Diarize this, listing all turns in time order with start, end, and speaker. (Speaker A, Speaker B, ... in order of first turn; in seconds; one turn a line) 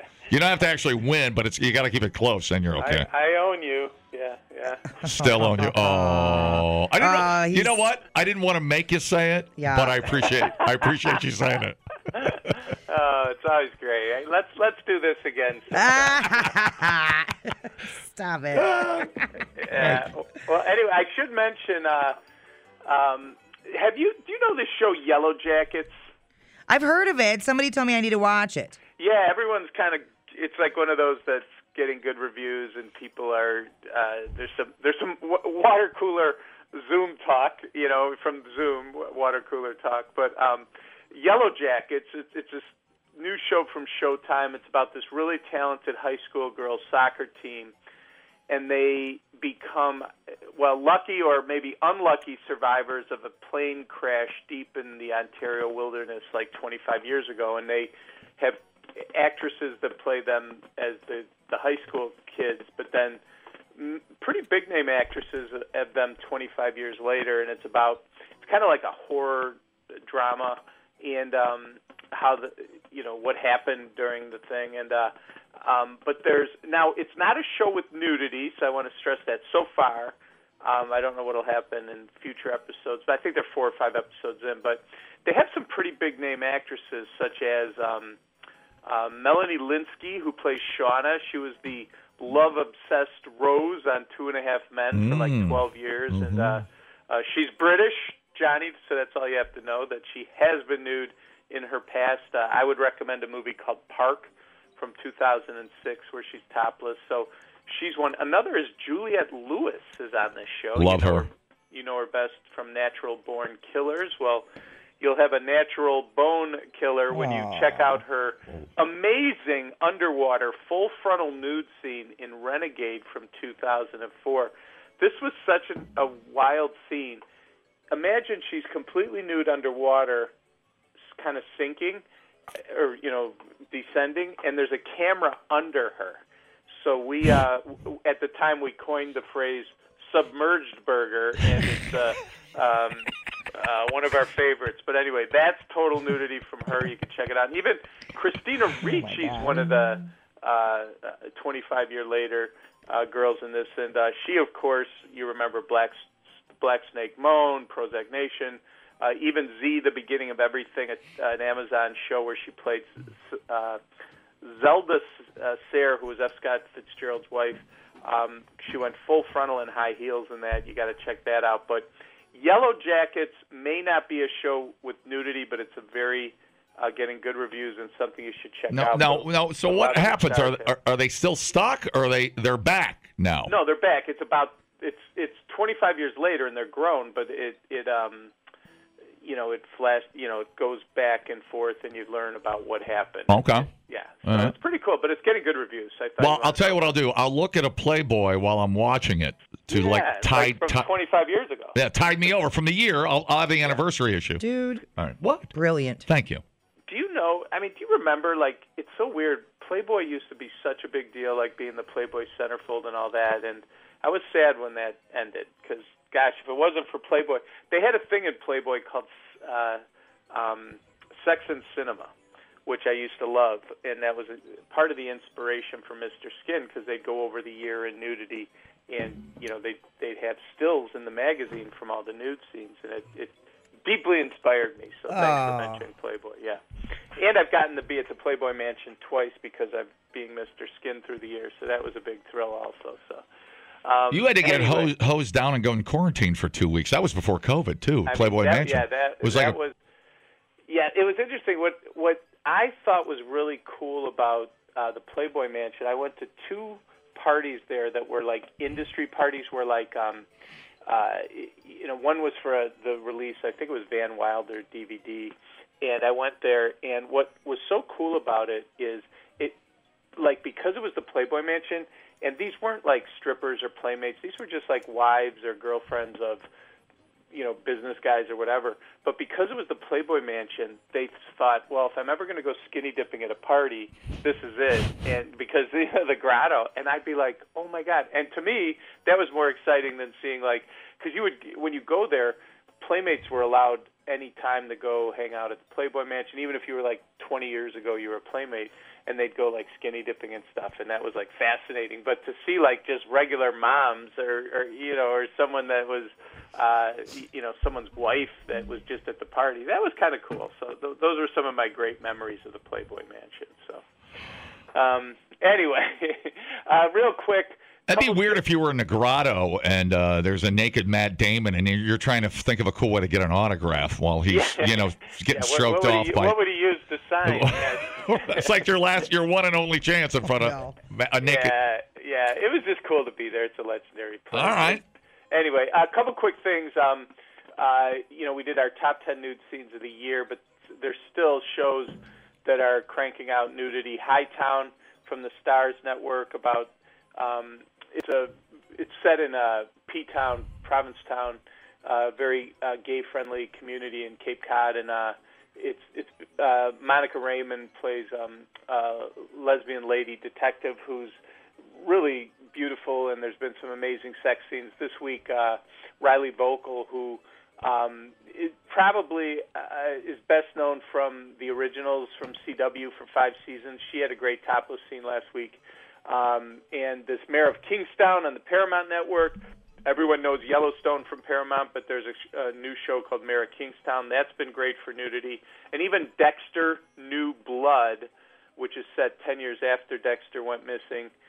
Speaker A: 0.3-3.1
Speaker B: 2.8-5.0
Speaker A: 5.0-12.5
Speaker C: 5.1-7.8
Speaker C: 9.6-10.1
Speaker B: 10.6-10.9
Speaker B: 12.2-16.3
Speaker C: 15.7-18.7
Speaker A: 18.5-19.1
Speaker B: 19.6-22.2
Speaker A: 19.7-20.1
Speaker B: 22.9-25.9
Speaker C: 26.7-28.8
Speaker B: 29.0-47.7
Speaker B: 48.5-63.2
Speaker B: 63.8-88.2
Speaker B: 88.8-114.5
Speaker A: 94.9-96.6
Speaker A: 110.8-111.3
Speaker B: 115.0-127.2
Speaker C: 117.1-118.0
Speaker B: 127.9-130.3
Speaker B: 131.2-132.0
Speaker B: 132.7-136.2
Speaker B: 136.8-156.1
Speaker C: 148.9-149.8
Speaker B: 156.6-163.8
Speaker B: 164.4-180.7
Speaker A: 178.7-183.5
Speaker B: 183.5-188.3
Speaker B: 189.2-196.9
Speaker A: 193.3-193.7
Speaker A: 194.2-194.6
Speaker A: 196.2-200.9
Speaker B: 199.7-201.8
Speaker A: 201.8-204.4
Speaker C: 204.4-204.9
Speaker A: 205.0-205.5
Speaker C: 205.5-206.1
Speaker A: 206.1-206.4
Speaker B: 206.9-222.1
Speaker B: 222.7-233.3
Speaker B: 233.8-236.6
Speaker C: 235.1-235.8
Speaker B: 237.2-243.2
Speaker B: 243.8-244.9
Speaker A: 244.1-249.6
Speaker B: 248.1-249.8
Speaker B: 250.7-260.3
Speaker B: 260.9-269.6
Speaker B: 270.2-276.4
Speaker B: 277.3-313.8
Speaker B: 314.7-318.4
Speaker A: 317.9-326.4
Speaker B: 324.3-328.6
Speaker A: 327.2-331.6
Speaker C: 330.3-330.8
Speaker B: 331.2-361.2
Speaker A: 334.3-334.8
Speaker B: 361.8-391.1